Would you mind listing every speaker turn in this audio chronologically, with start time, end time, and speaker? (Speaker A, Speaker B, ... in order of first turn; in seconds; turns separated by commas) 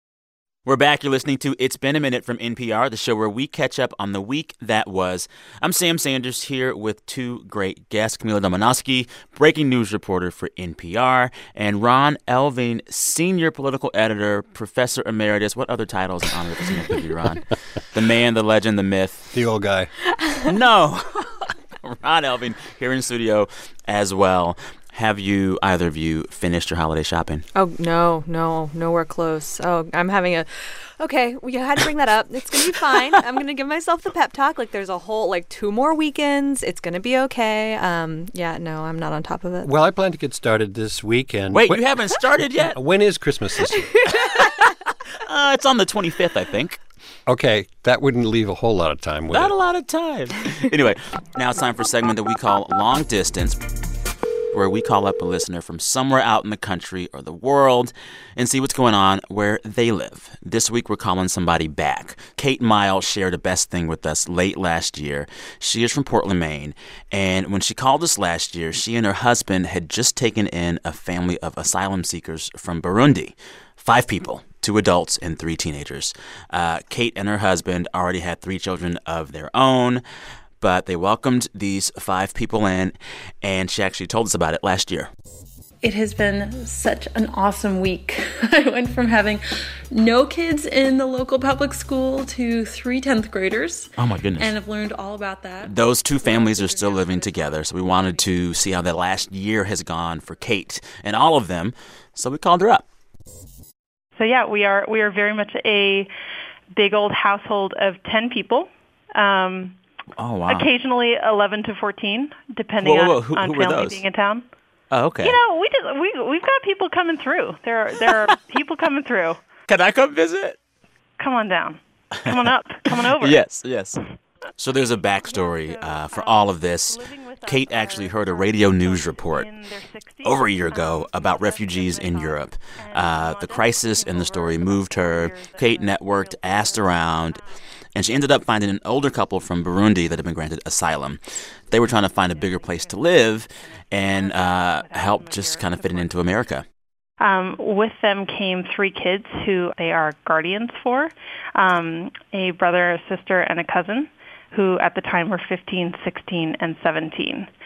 Speaker A: 0.7-19.3, Speaker B: 19.3-19.9, Speaker A: 20.4-27.4, Speaker C: 27.5-39.7, Speaker B: 39.6-41.8, Speaker A: 41.5-42.8, Speaker B: 42.4-43.9, Speaker A: 44.1-46.8, Speaker B: 47.2-49.5, Speaker A: 49.3-53.6, Speaker A: 54.5-80.0, Speaker A: 80.6-85.1, Speaker D: 85.8-97.3, Speaker A: 94.0-94.5, Speaker A: 95.6-102.8, Speaker E: 104.2-106.1, Speaker E: 106.7-109.8, Speaker A: 110.2-110.7, Speaker E: 110.5-114.4, Speaker A: 112.8-114.0, Speaker A: 114.9-115.4, Speaker E: 115.2-119.4, Speaker A: 119.7-120.5, Speaker E: 121.2-123.4, Speaker A: 122.9-124.0, Speaker A: 124.6-129.5, Speaker E: 125.2-137.5, Speaker A: 130.2-137.4, Speaker A: 137.9-146.6, Speaker E: 141.9-143.2, Speaker E: 143.9-146.4, Speaker E: 147.2-157.5